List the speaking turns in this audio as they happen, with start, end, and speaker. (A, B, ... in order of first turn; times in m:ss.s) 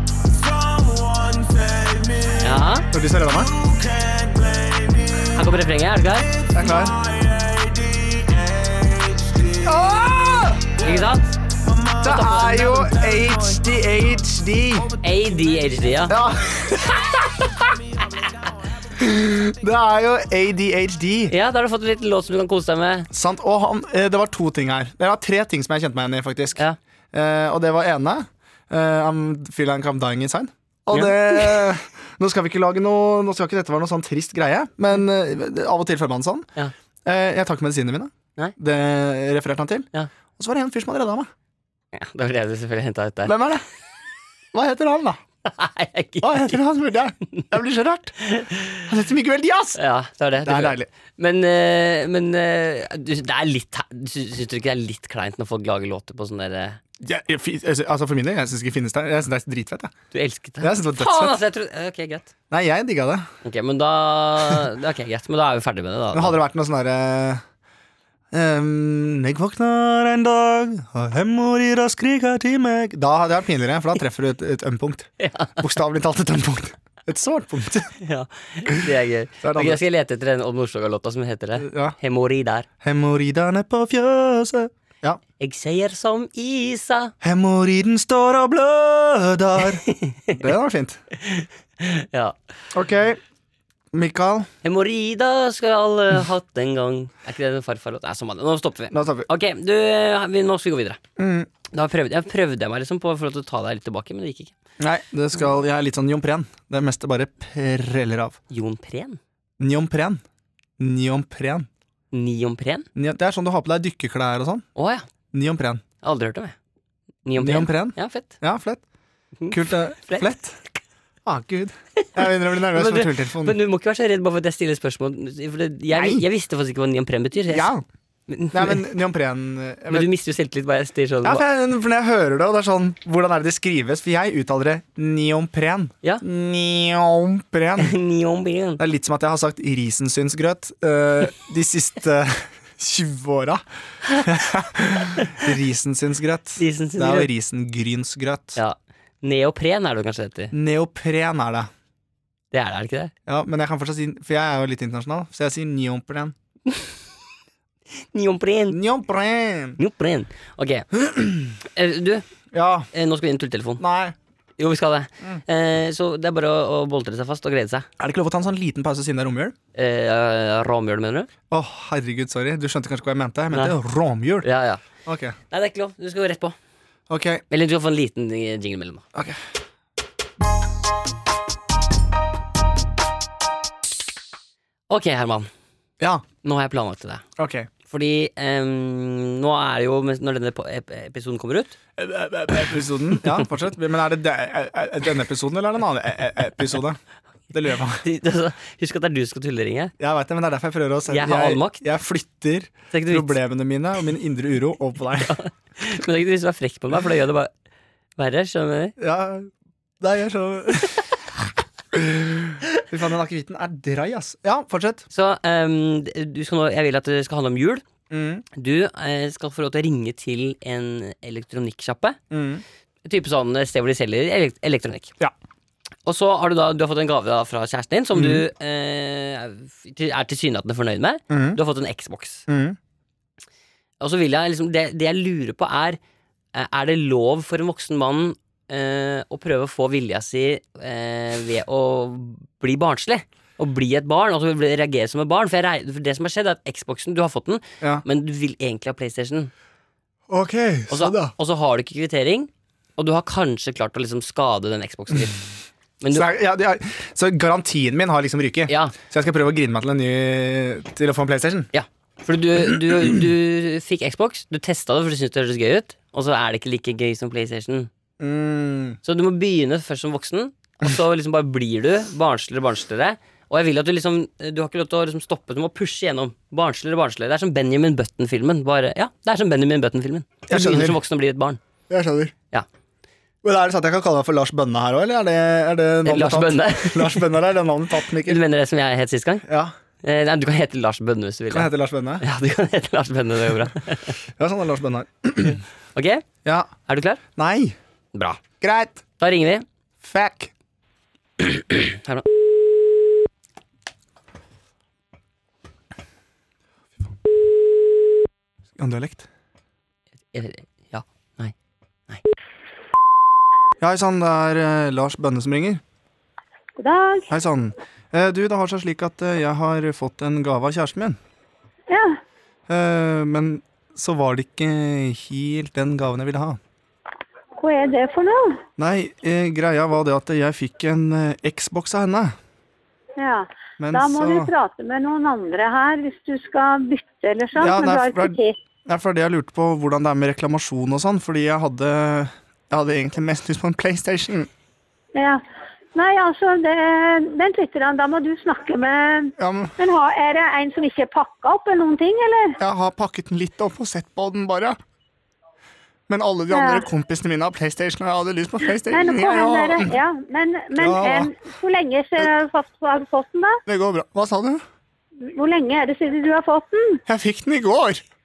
0:00.1-0:13.7 A
0:02.4-0:02.8 B
0:02.9-0:03.5 C
0:05.3-0:06.3 B
0:06.5-0:07.0 C
0:09.6-0:10.7 C
0:10.8-0:11.4 B
0:12.0-0:14.9 C
0:14.7-0:19.5 A
0:15.0-0:16.2 B
0:16.1-0:17.5 C
0:19.0-0:21.3 C
0:21.3-0:23.1 B
0:23.1-0:26.6 C
0:27.1-0:36.5 C
0:30.9-0:31.7 B
0:37.0-0:41.3 C
0:41.9-0:43.3 B
0:43.2-0:43.6 C
0:44.5-0:45.2 C
0:45.4-0:46.6 B
0:46.2-0:48.2 C
0:48.2-0:48.8 B
0:48.8-0:49.8 C
0:49.8-0:56.8 B
0:50.4-0:50.9 C
0:57.0-0:59.9 C
1:00.1-1:02.3 B
1:00.6-1:01.4 C
1:02.5-1:03.3 C
1:03.4-1:06.4 B
1:06.1-1:07.4 C
1:08.3-1:17.9 C
1:15.2-1:15.6 B
1:18.0-1:22.7 B
1:19.4-1:19.8 C
1:21.6-1:21.9 C
1:22.8-1:25.2 C
1:25.4-1:27.1 B
1:27.2-1:31.0 C
1:29.8-1:30.4 B
1:31.2-1:32.3 B
1:32.7-1:33.2 C
1:33.9-1:34.5 C
1:34.6-1:41.0 B
1:38.9-1:39.3 C
1:41.2-1:41.5 C
1:41.7-1:44.5 B
1:44.8-1:48.4 C
1:48.5-1:49.2 B
1:49.6-1:50.2 C
1:50.8-1:51.7 C
1:52.1-1:52.8 B
1:53.0-1:54.6 C
1:54.8-1:55.0 B
1:55.3-1:55.8 C
1:56.0-1:56.5 B
1:57.2-1:58.3 B
1:57.4-1:58.8 C
1:59.4-2:00.4 B
1:59.5-2:00.6 C
2:01.2-2:03.6 C
2:02.7-2:07.7 B
2:05.9-2:06.2 C
2:07.5-2:07.8 C
2:08.3-2:08.8 B
2:08.5-2:10.1 C
2:09.9-2:11.4 B
2:11.2-2:17.9 C
2:17.8-2:18.8 B
2:18.8-2:23.6 C
2:24.2-2:28.6 C
2:25.2-2:25.4 B
2:26.6-2:27.3 B
2:28.6-2:30.5 B
2:30.5-2:31.7 C
2:32.5-2:33.1 B
2:33.3-2:36.3 C
2:38.0-2:38.8 B
2:38.7-2:39.8 C
2:39.8-2:40.9 B
2:40.9-2:41.6 C
2:41.6-2:42.2 B
2:42.5-2:42.9 C
2:42.9-2:43.8 B
2:43.8-2:44.1 C
2:44.6-2:47.9 B
2:48.0-2:49.5 C
2:49.7-2:51.3 B
2:51.5-2:54.5 C
2:54.4-2:54.8 B
2:55.0-2:55.4 C
2:55.5-2:56.6 B
2:57.1-2:57.4 C
2:57.5-2:59.0 B
3:04.9-3:05.5 B
3:06.4-3:07.2 B
3:07.4-3:07.7 C
3:07.9-3:11.8 B
3:12.0-3:17.0 C
3:17.5-3:18.0 C
3:18.0-3:19.9 B
3:20.0-3:25.4 C
3:21.1-3:21.8 B
3:22.9-3:23.4 B
3:25.3-3:27.5 B
3:28.2-3:29.0 B
3:29.0-3:31.0 C
3:31.9-3:35.0 C
3:35.1-3:37.8 B
3:38.1-3:38.4 C
3:38.5-3:42.2 B
3:42.3-3:42.6 C
3:43.0-3:45.1 B
3:46.0-3:52.4 B
3:48.1-3:48.4 C
3:51.3-3:51.6 C
3:52.5-3:52.8 C
3:54.0-3:56.0 B
3:56.5-4:09.5 B
4:10.3-4:11.3 C
4:10.9-4:15.4 B
4:16.0-4:16.3 B
4:16.1-4:21.7 C
4:18.7-4:18.9 B
4:21.7-4:27.9 B
4:28.2-4:29.0 C
4:29.0-4:41.6 B
4:40.5-4:41.0 C
4:41.9-4:42.3 C
4:43.4-4:48.4 C
4:46.0-4:47.3 B
4:48.2-4:49.4 B
4:49.5-4:49.7 C
4:50.0-4:54.2 B
4:51.5-4:52.2 C
4:54.4-4:55.6 C
4:55.9-4:56.2 B
4:56.4-4:56.7 C
4:56.9-4:57.2 B
4:57.4-4:57.8 C
4:58.1-4:58.4 B
4:58.6-4:59.0 C
4:59.2-4:59.6 B
5:00.0-5:00.5 C
5:01.4-5:02.3 B
5:08.8-5:09.3 C
5:10.3-5:11.5 B
5:13.8-5:15.8 C
5:16.8-5:17.3 D
5:17.3-5:21.2 C
5:21.9-5:22.2 D
5:22.7-5:26.6 C
5:27.6-5:28.6 D
5:28.8-5:32.3 C
5:33.2-5:38.6 D
5:33.8-5:34.5 C
5:37.6-5:44.5 C
5:45.1-5:45.4 D
5:45.9-5:52.6 D
5:49.4-5:49.7 C
5:52.6-5:54.8 C
5:56.1-5:59.9 C
5:56.5-5:56.8 D
5:58.8-6:03.6 D
6:00.8-6:01.3 C
6:03.7-6:04.6 C
6:05.2-6:07.0 D
6:07.0-6:08.0 C